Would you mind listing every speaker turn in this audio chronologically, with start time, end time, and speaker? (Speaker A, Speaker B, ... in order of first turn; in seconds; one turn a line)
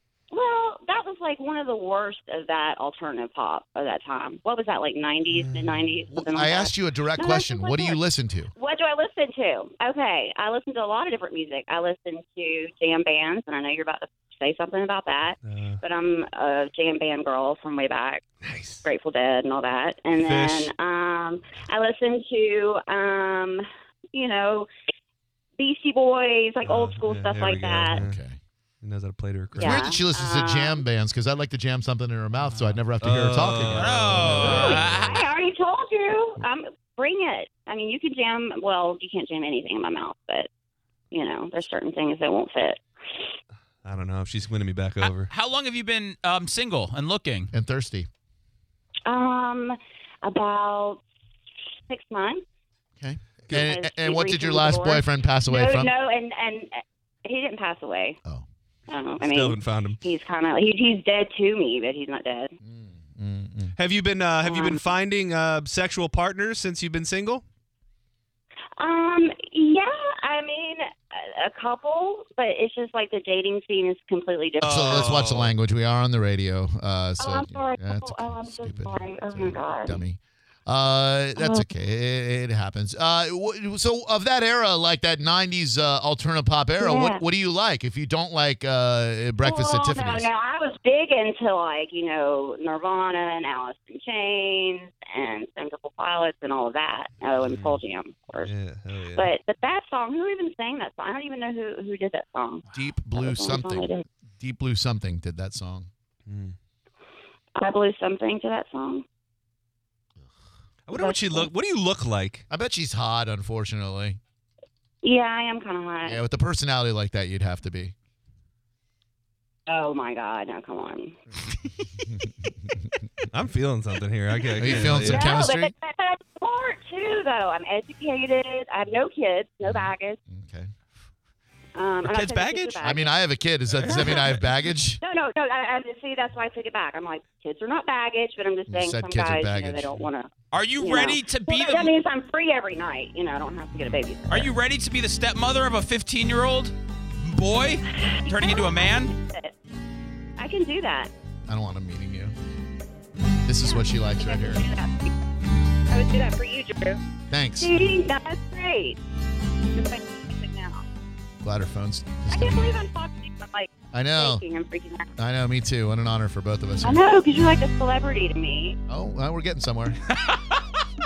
Speaker A: 0.3-8.0
Speaker B: 5.3-5.8
Speaker C: 6.1-8.5
Speaker A: 8.5-18.2
Speaker B: 15.4-15.8
Speaker B: 18.4-18.8
Speaker A: 18.8-24.7
Speaker B: 20.2-20.7
Speaker A: 25.6-28.0
Speaker B: 26.6-28.2
Speaker C: 27.9-28.4
Speaker B: 28.8-29.8
Speaker C: 29.5-34.7
Speaker A: 29.6-30.8
Speaker B: 32.5-35.1
Speaker D: 33.7-35.2
Speaker A: 34.4-40.5
Speaker A: 41.1-42.8
Speaker B: 43.8-45.3
Speaker D: 45.0-47.5
Speaker C: 47.5-48.1
Speaker A: 49.1-51.0
Speaker A: 51.9-52.4
Speaker C: 53.0-55.9
Speaker A: 53.5-58.2
Speaker A: 58.9-62.5
Speaker B: 59.2-60.0
Speaker C: 62.6-63.7
Speaker B: 63.8-67.4
Speaker A: 64.4-64.8
Speaker A: 68.8-75.1
Speaker B: 74.6-75.5
Speaker C: 74.6-90.3
Speaker A: 77.2-80.0
Speaker A: 81.4-81.7
Speaker A: 86.8-87.2
Speaker A: 89.4-98.5
Speaker B: 97.5-97.8
Speaker B: 98.4-99.3
Speaker A: 99.1-104.0
Speaker C: 102.7-105.9
Speaker B: 106.3-106.5
Speaker A: 107.6-109.0
Speaker B: 110.9-112.4
Speaker A: 110.9-111.5
Speaker C: 112.5-114.2
Speaker A: 115.0-116.2
Speaker C: 116.0-117.9
Speaker A: 119.7-121.2
Speaker C: 122.1-122.8
Speaker B: 123.3-125.3
Speaker C: 124.6-125.7
Speaker A: 125.0-130.2
Speaker C: 129.6-130.7
Speaker A: 131.7-133.2
Speaker D: 132.0-132.9
Speaker C: 132.8-135.0
Speaker A: 133.8-134.3
Speaker A: 135.0-144.5
Speaker C: 138.7-139.9
Speaker D: 140.5-141.9
Speaker D: 144.3-149.1
Speaker A: 148.2-149.5
Speaker A: 150.4-151.1
Speaker C: 151.5-152.3
Speaker C: 153.4-154.6
Speaker A: 153.6-155.1
Speaker A: 155.9-157.0
Speaker C: 157.3-157.7
Speaker A: 157.6-159.0
Speaker A: 159.7-160.8
Speaker C: 161.4-162.6
Speaker A: 162.3-165.1
Speaker C: 163.9-164.4
Speaker C: 165.2-167.0
Speaker A: 166.8-168.8
Speaker C: 168.9-170.0